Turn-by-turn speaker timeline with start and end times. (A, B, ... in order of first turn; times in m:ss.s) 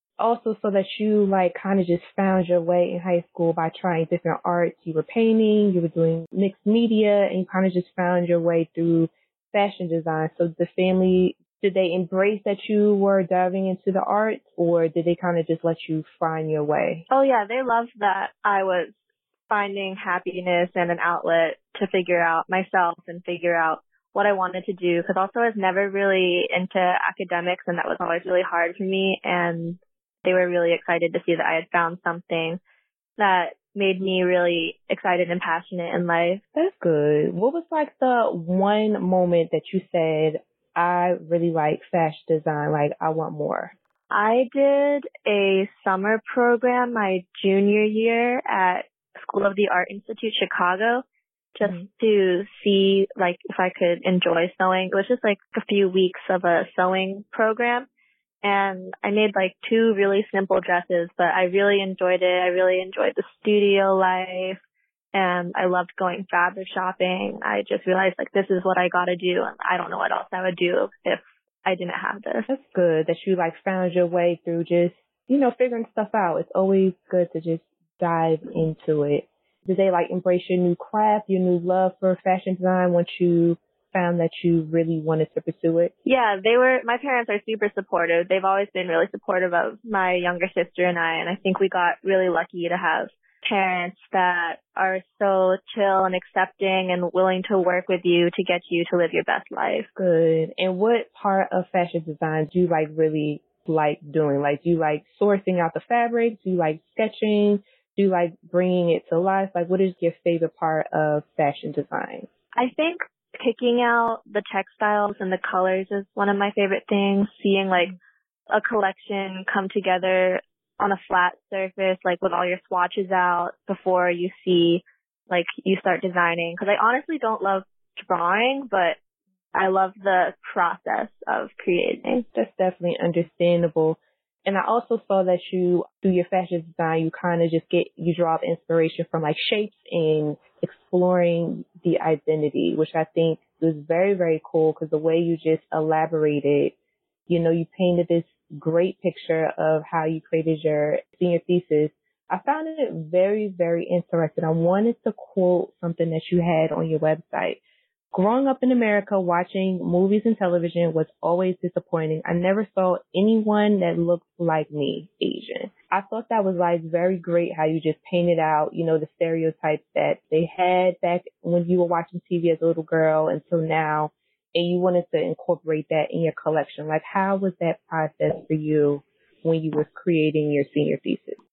0:00.2-0:17.0 A
0:17.1-0:18.9 B
0:19.5-0:32.6 B
0:33.2-0:36.4 B
0:36.5-0:43.7 A
0:44.1-0:51.0 B
0:51.5-0:57.9 B
0:51.6-0:51.8 A
0:58.4-1:04.6 B
1:05.1-1:12.5 B
1:12.5-1:25.9 A
1:26.0-1:39.9 B
1:40.0-1:52.3 A
1:52.5-1:57.9 B
1:58.5-2:09.0 B
2:09.5-2:12.2 B
2:12.3-2:26.7 A
2:27.3-2:37.6 A
2:38.1-3:01.4 A